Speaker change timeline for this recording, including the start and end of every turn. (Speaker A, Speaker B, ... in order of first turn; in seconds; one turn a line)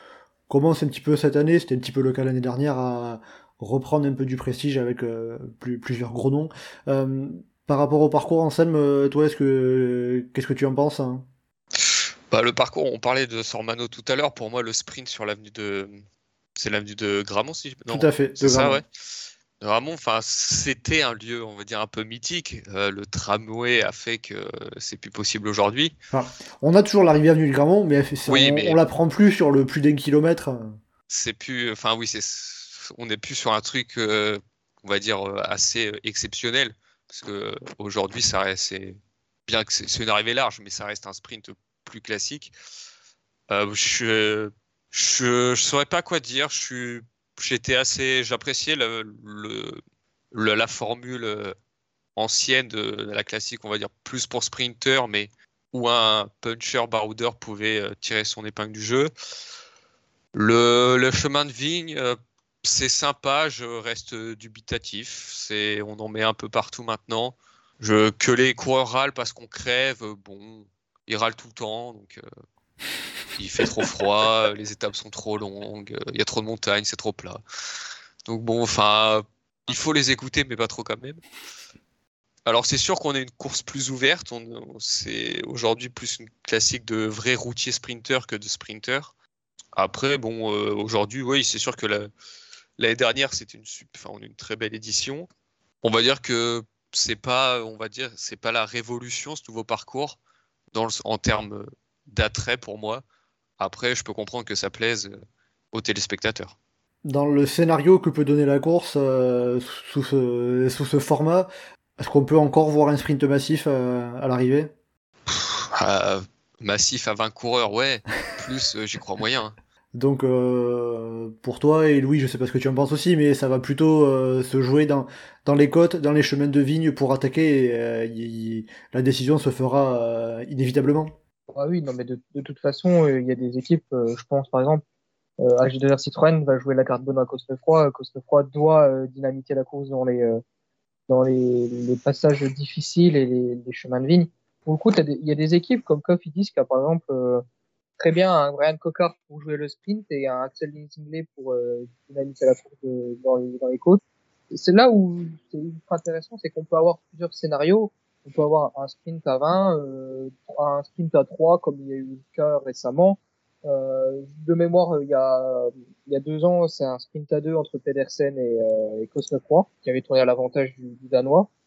Speaker A: 0.5-11.3
Speaker B: 11.8-16.0
Speaker B: 16.6-18.9
Speaker A: 17.9-18.8
Speaker B: 19.6-25.9
Speaker A: 26.1-30.8
Speaker B: 28.3-28.8
Speaker B: 31.1-42.5
Speaker B: 43.5-49.8
Speaker B: 50.3-51.5
Speaker B: 52.1-59.1
Speaker B: 60.3-72.2
Speaker B: 73.3-77.4
Speaker B: 78.3-81.2
Speaker B: 82.5-89.1
Speaker B: 89.8-92.1
Speaker B: 92.8-95.3
Speaker B: 95.8-100.2
Speaker B: 100.7-103.0
Speaker B: 103.6-105.2
Speaker B: 105.7-106.5
Speaker A: 107.0-114.7
Speaker B: 115.3-119.5
Speaker A: 120.0-131.1
Speaker C: 131.5-134.8
Speaker C: 135.4-140.4
Speaker C: 141.1-147.4
Speaker C: 148.0-171.5